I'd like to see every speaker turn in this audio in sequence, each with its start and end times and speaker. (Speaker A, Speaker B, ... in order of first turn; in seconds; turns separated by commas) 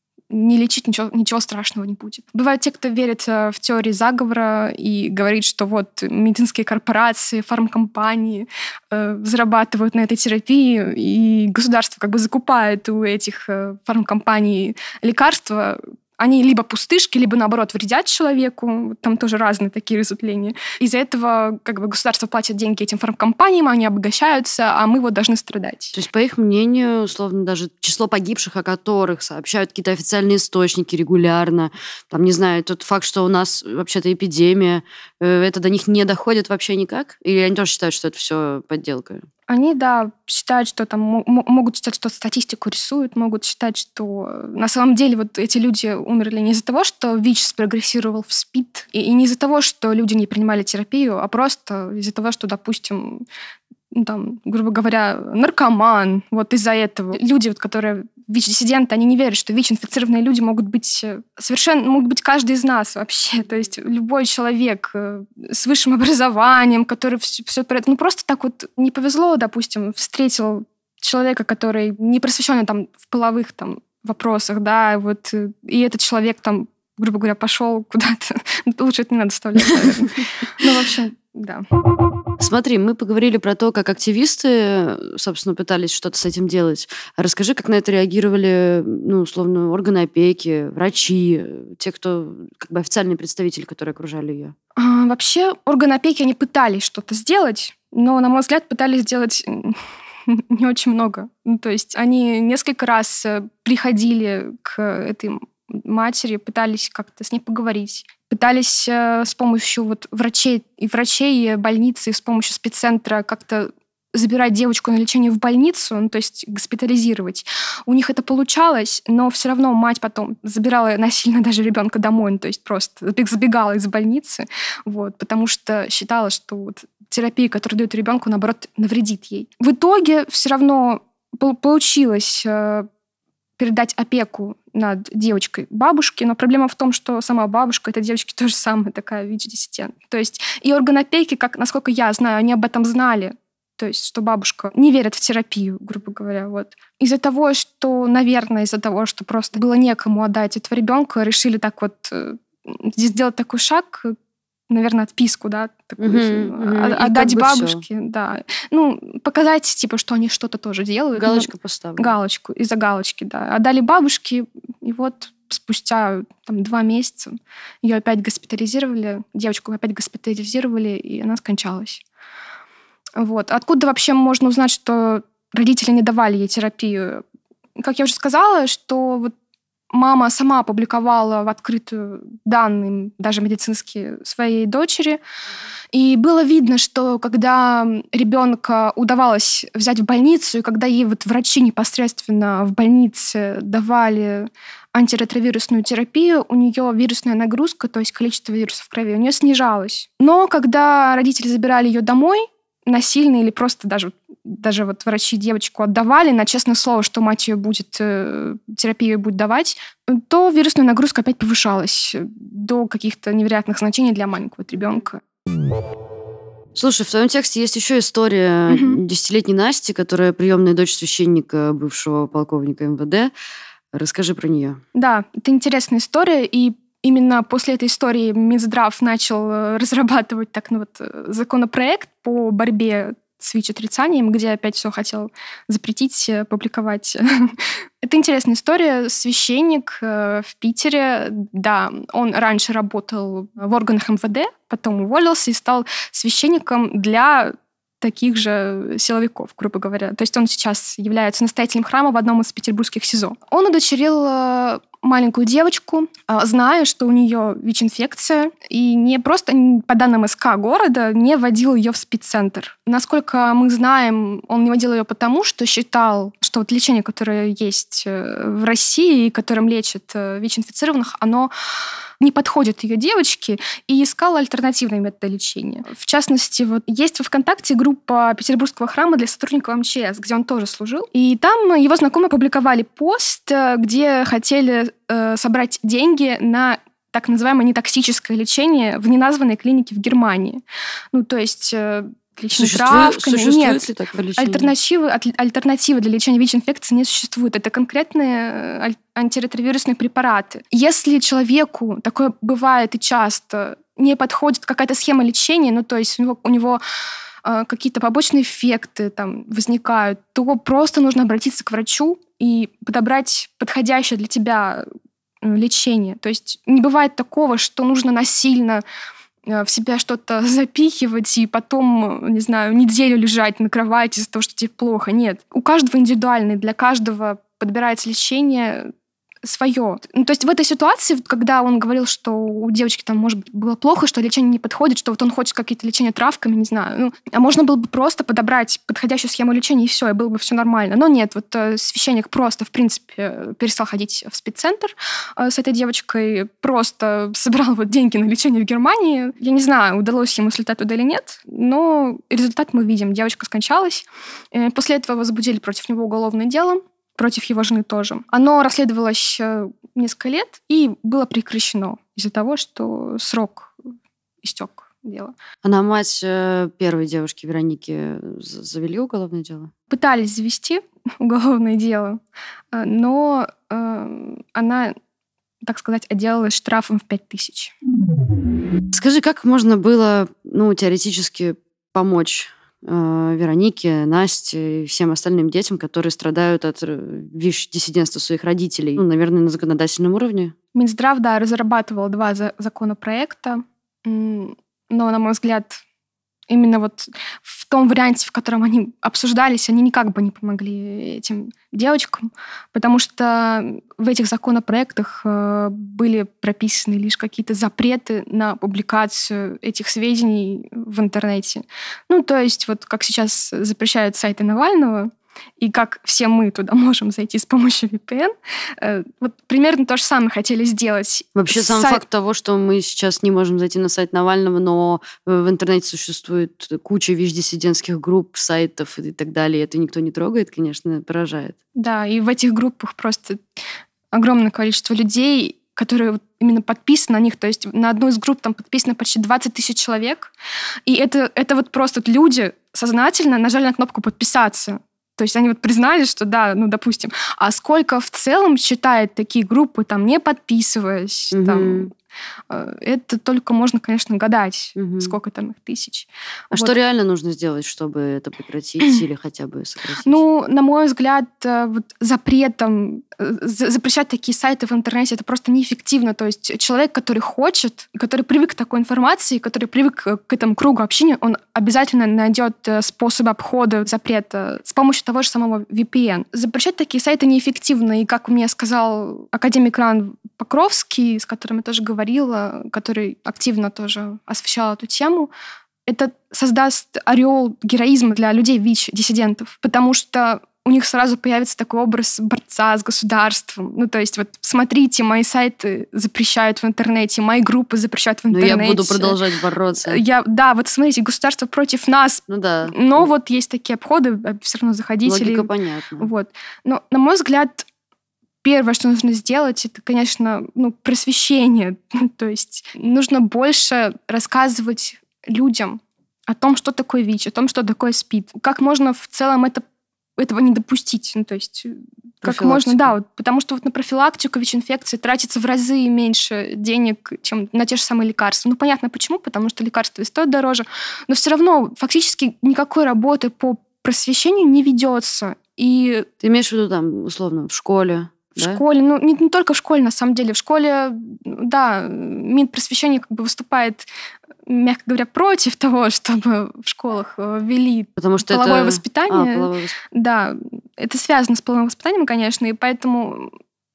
Speaker A: 0.3-26.0, Speaker B: 25.9-39.3, Speaker A: 39.5-53.2, Speaker A: 53.9-81.7, Speaker B: 82.4-94.5, Speaker A: 94.8-132.9, Speaker A: 133.6-154.2, Speaker A: 154.7-167.3, Speaker B: 156.0-157.8, Speaker B: 161.2-162.2, Speaker A: 167.8-172.0, Speaker A: 173.2-177.2, Speaker A: 177.8-179.3, Speaker A: 179.9-185.2, Speaker A: 185.9-215.2, Speaker B: 216.8-223.3, Speaker A: 218.7-219.0, Speaker B: 223.9-224.8, Speaker A: 224.9-271.5, Speaker A: 272.2-290.6, Speaker A: 291.1-293.9, Speaker B: 292.5-294.7, Speaker A: 294.4-306.8, Speaker A: 307.4-314.9, Speaker A: 315.4-318.8, Speaker A: 319.5-328.9, Speaker A: 329.4-363.8, Speaker A: 364.4-365.3, Speaker B: 365.6-369.7, Speaker A: 369.9-372.2, Speaker A: 372.7-375.0, Speaker A: 375.6-377.7, Speaker B: 378.9-390.5, Speaker A: 390.8-395.8, Speaker A: 396.5-422.0, Speaker B: 421.4-431.6, Speaker A: 431.8-433.4, Speaker A: 434.1-440.3, Speaker A: 440.9-451.9, Speaker B: 451.3-451.9, Speaker A: 452.5-456.7, Speaker B: 454.8-455.1, Speaker B: 456.5-460.2, Speaker A: 460.0-485.3, Speaker A: 485.9-499.2, Speaker B: 498.3-500.0, Speaker A: 499.9-505.5, Speaker B: 502.3-503.1, Speaker B: 505.1-506.1, Speaker A: 506.0-507.7, Speaker A: 508.4-519.6, Speaker A: 520.2-536.1, Speaker B: 522.2-523.0, Speaker B: 536.2-538.6, Speaker A: 538.4-543.9, Speaker A: 544.5-553.3, Speaker B: 548.0-549.8